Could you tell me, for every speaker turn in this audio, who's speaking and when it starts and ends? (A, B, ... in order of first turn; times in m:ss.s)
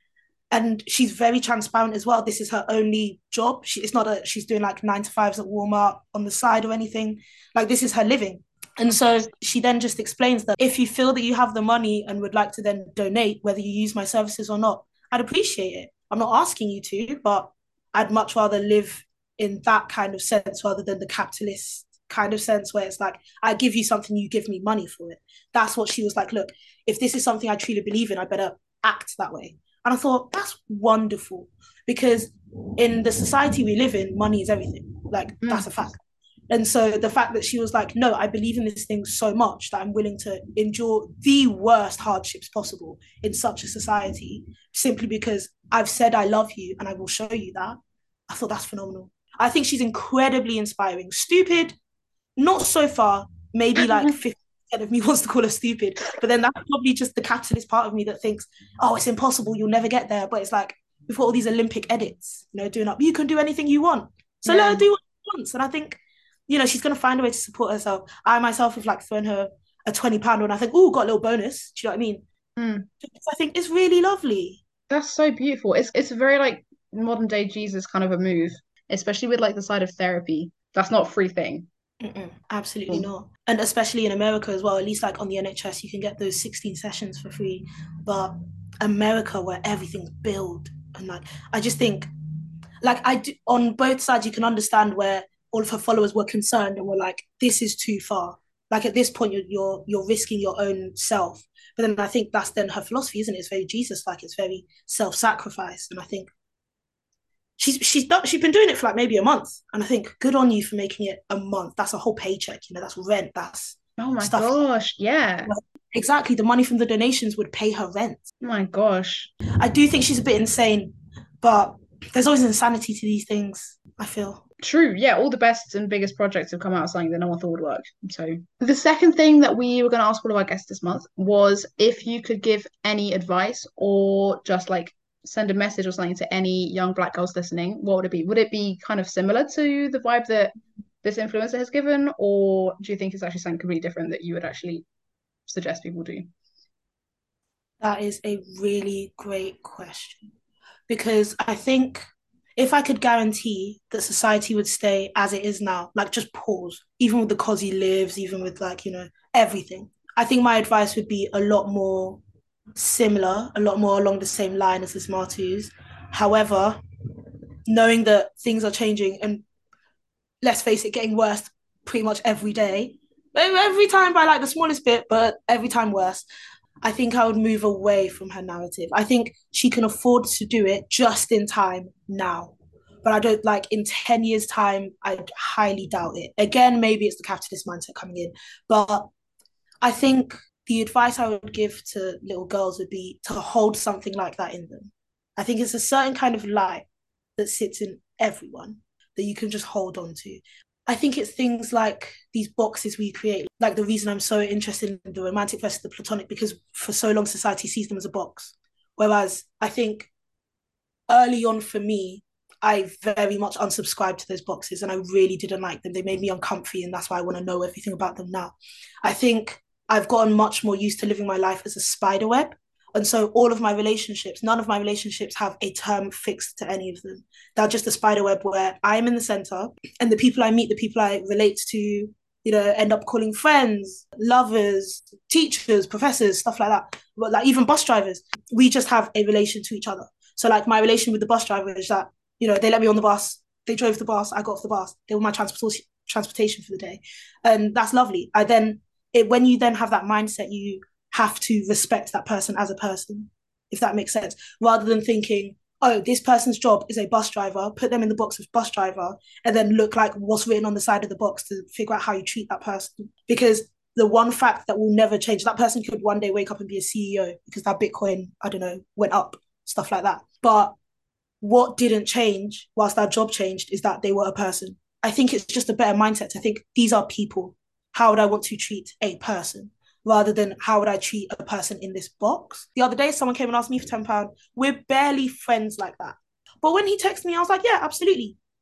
0:00.5-0:47.8 A
0:35.4-0:35.7 B
0:48.3-0:51.7 A
0:52.4-1:12.2 A
0:53.8-0:54.1 B
1:04.4-1:04.8 B
1:12.6-1:12.9 B
1:13.0-1:14.6 A
1:14.9-1:21.7 B
1:22.0-1:32.1 A
1:32.8-1:46.3 A
1:47.6-1:54.5 A
1:54.0-1:55.5 B
1:55.4-1:58.2 A
1:58.4-1:59.3 B
1:59.6-2:04.4 A
2:04.6-2:24.8 B
2:25.5-2:26.3 B
2:27.8-2:30.3 A
2:30.9-2:32.0 A
2:32.6-2:42.2 A
2:42.8-2:46.8 A
2:47.7-2:49.4 A
2:50.4-2:56.2 A
2:56.8-3:09.1 A
3:09.8-3:16.8 A
3:17.4-3:30.1 A
3:31.1-4:30.7 A
4:31.4-4:48.4 A